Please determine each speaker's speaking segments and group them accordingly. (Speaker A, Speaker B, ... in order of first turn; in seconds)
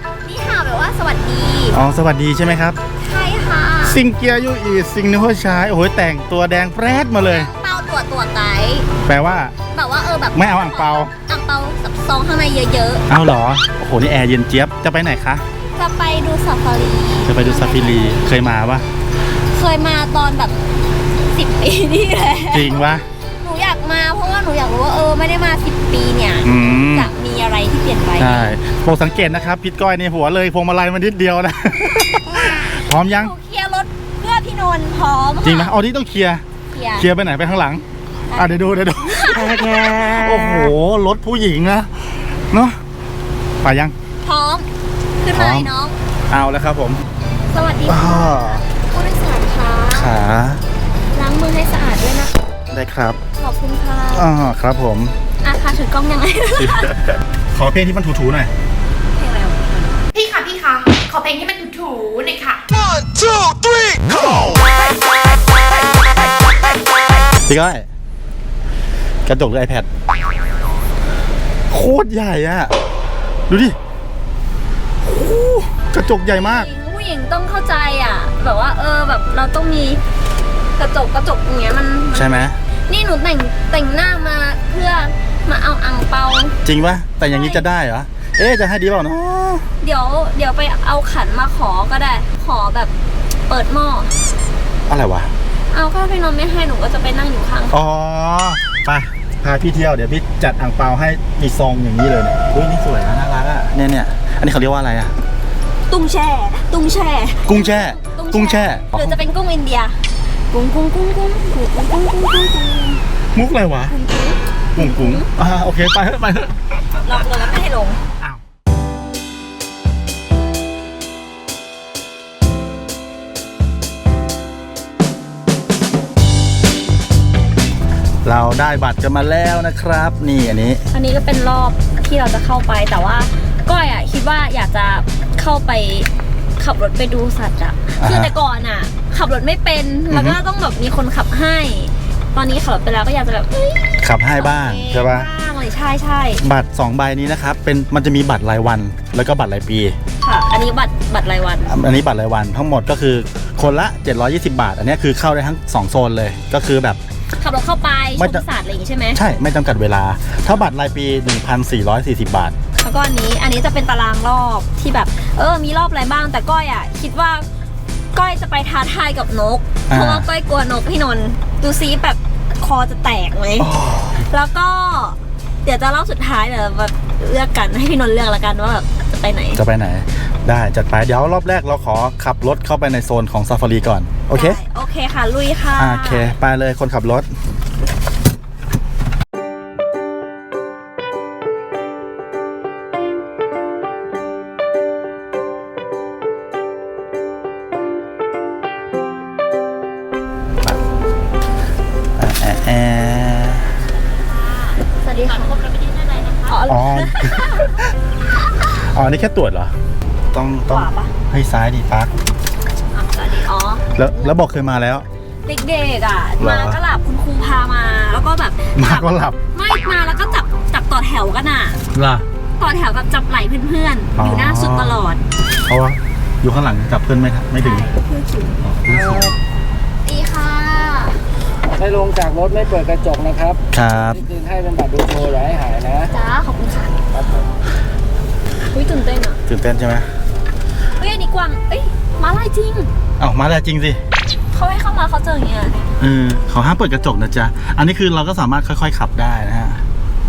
Speaker A: 0.2-1.8, 3.0-4.0, 7.2-8.9, 9.7-13.1, 15.7-18.4, 19.3-20.6, 21.2-22.9, 23.4-28.6, 33.0-35.7, 36.7-37.1, 38.3-40.7, 44.2-44.7, 45.2-45.9, 47.5-50.1, 51.1-52.4, 53.4-54.3, 55.4-56.9, 59.1-60.0, 76.0-80.0, 80.8-86.6, 87.2-87.6, 89.8-92.9, 93.5-94.1, 95.7-97.8, 105.9-113.0, 113.9-115.3, 117.0-118.0, 130.9-146.4, 150.2-151.7, 157.4-159.2, 162.8-167.5, 168.1-179.6, 184.3-186.3, 204.1-207.8, 210.7-211.1, 212.9-214.3, 215.4-221.8, 222.6-225.2, 227.6-228.6, 230.0-231.2, 236.1-237.0, 238.7-239.4, 241.0-242.9, 244.5-245.9
Speaker B: 1.7-2.8, 3.8-7.5, 9.0-9.5, 10.3-11.1, 13.1-15.4, 17.2-18.8, 22.5-23.1, 26.4-27.1, 28.2-33.3, 35.4-36.4, 37.0-42.8, 43.6-43.9, 45.3-45.7, 46.3-47.0, 47.9-48.6, 49.9-50.6, 52.7-53.2, 54.1-55.1, 56.6-58.5, 63.7-64.6, 67.5-67.9, 69.2-69.9, 71.7-72.7, 73.5-73.8, 75.0-76.7, 82.1-82.6, 86.6-89.7, 94.9-95.3, 97.7-105.1, 107.4-109.2, 113.3-113.9, 114.7-116.6, 128.2-130.8, 138.0-138.3, 140.1-140.4, 144.0-145.3, 146.4-150.0, 151.7-157.0, 158.2-158.4, 159.1-162.6, 169.9-170.3, 173.6-174.3, 179.6-184.6, 185.8-187.3, 202.2-203.7, 206.7-207.9, 208.7-209.7, 210.3-212.1, 213.9-215.1, 216.4-216.8, 218.7-219.4, 221.9-222.2, 224.2-225.0, 225.6-227.9, 228.6-229.3, 233.7-234.2, 239.4-240.1, 243.2-244.0, 246.0-249.8
Speaker C: 60.1-62.6
Speaker D: 228.9-229.3, 231.7-236.1, 237.1-237.5